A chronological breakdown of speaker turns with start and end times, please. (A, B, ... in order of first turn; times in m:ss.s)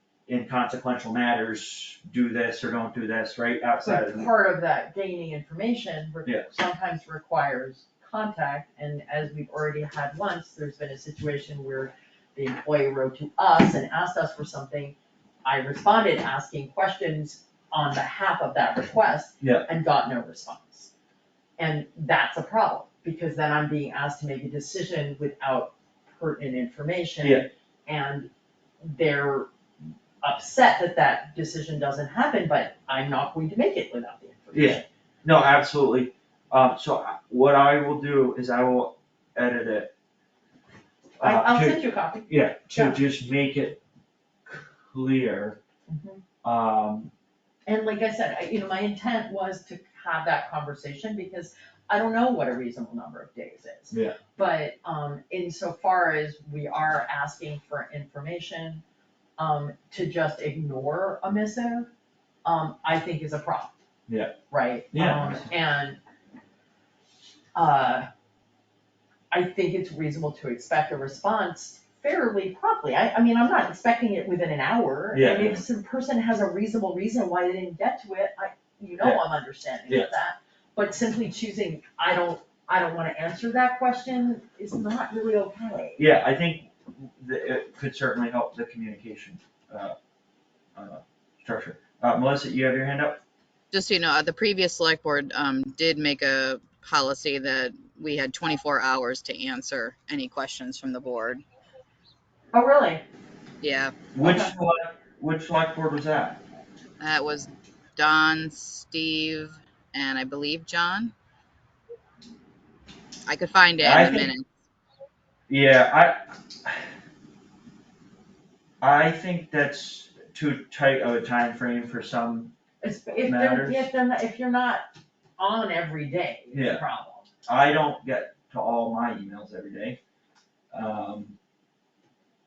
0:00.3-0:04.3 A
0:03.8-0:20.9 B
0:06.2-0:06.5 A
0:21.6-0:28.3 B
0:27.2-0:27.5 A
0:28.8-0:29.5 B
0:30.2-0:34.8 B
0:34.5-0:39.9 A
0:41.2-0:43.8 A
0:41.2-0:43.0 B
0:44.4-0:45.6 A
0:45.9-0:46.2 B
0:46.4-0:47.1 A
0:47.7-0:58.8 B
0:53.9-0:54.2 A
0:59.4-1:01.9 B
1:02.4-1:03.7 B
1:04.1-1:04.4 A
1:04.5-1:06.0 B
1:04.9-1:05.4 A
1:07.5-1:08.1 B
1:09.3-1:26.0 B
1:15.1-1:15.6 A
1:26.0-1:30.0 A
1:30.7-1:33.2 A
1:33.7-1:41.4 C
1:42.5-1:43.0 B
1:43.6-1:44.0 C
1:44.1-1:46.4 A
1:47.0-1:51.1 C
1:53.2-1:54.4 C
1:53.8-1:54.3 A
1:55.5-1:56.9 A
1:58.8-2:02.5 A
2:02.8-2:04.9 B
2:03.2-2:03.9 A
2:05.4-2:07.3 B
2:06.5-2:06.8 A
2:07.4-2:10.0 A
2:10.7-2:11.4 A